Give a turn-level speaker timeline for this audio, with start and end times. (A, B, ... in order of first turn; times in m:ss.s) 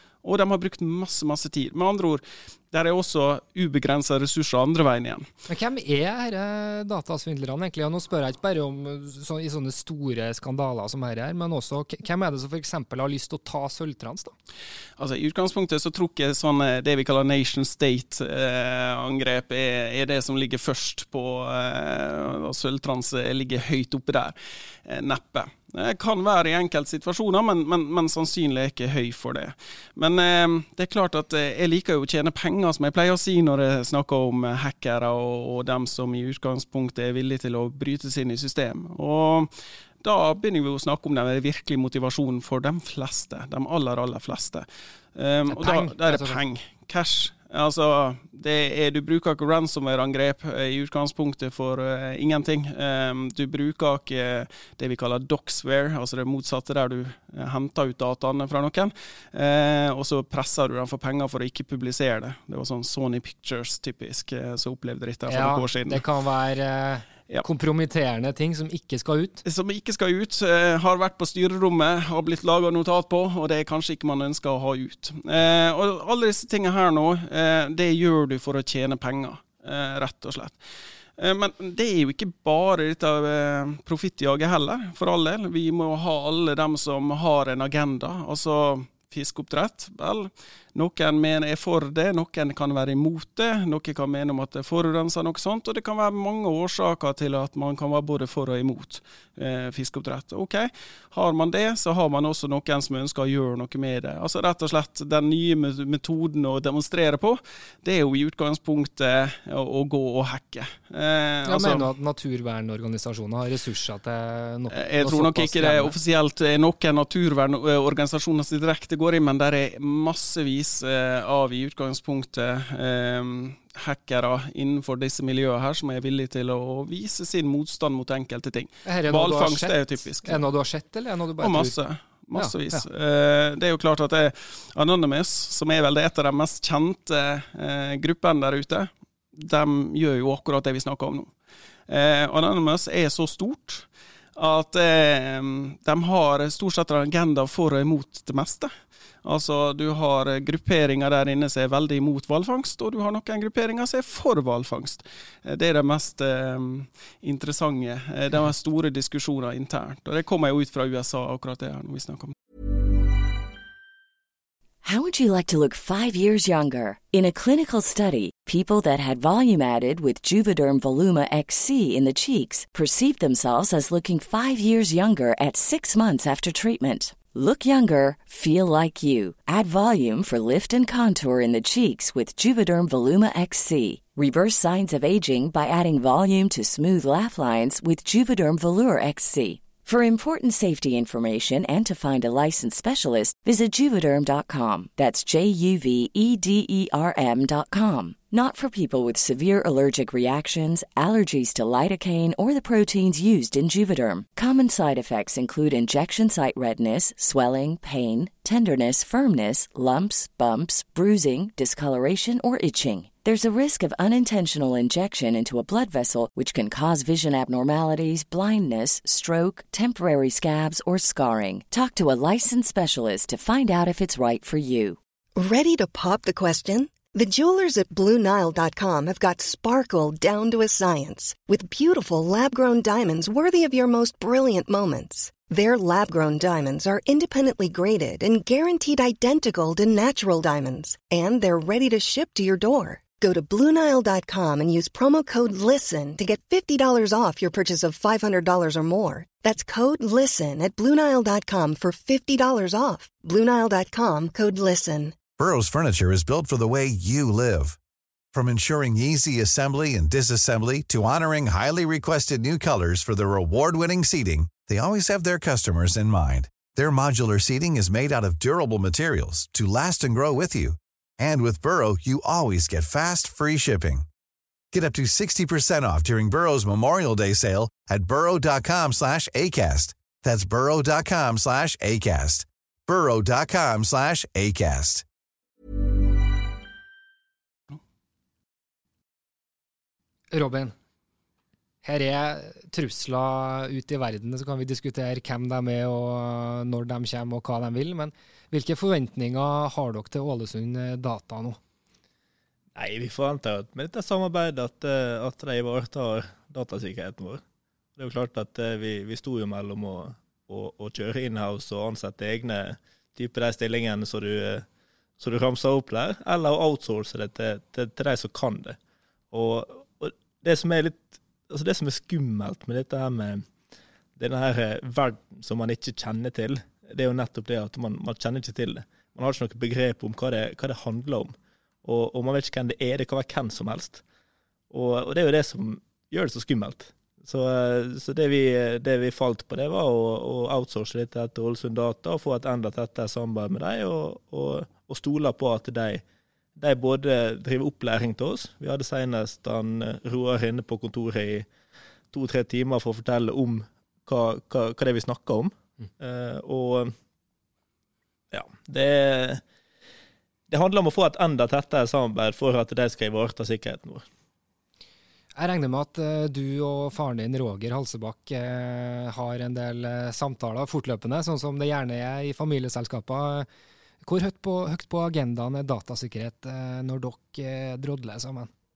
0:00.2-0:05.3 A
0:05.5-0:14.3 B
0:15.0-1:06.0 A
0:45.5-0:46.4 B
1:05.3-1:09.4 B
1:09.4-1:20.6 A
1:21.2-1:51.9 A
1:51.5-1:55.9 B
1:54.7-2:10.5 A
2:08.8-2:11.8 B
2:11.4-2:21.3 A
2:12.4-2:12.9 B
2:21.9-2:28.7 A
2:29.2-2:42.3 A
2:44.8-3:45.0 C
3:45.4-4:15.3 D
4:15.4-4:17.8 E
4:18.3-4:34.1 E
4:34.7-4:45.0 E
4:50.3-4:50.8 B
4:51.8-5:01.6 B
5:02.8-5:07.4 F
5:08.0-5:14.7 F
5:15.2-5:18.8 F
5:19.3-5:23.5 F
5:24.2-5:34.0 F
5:34.7-5:46.0 F
5:46.6-5:51.5 F
5:52.1-5:56.9 F
5:58.3-5:59.4 F
6:00.5-6:04.1 F
6:05.4-6:13.5 B
6:14.0-6:18.5 B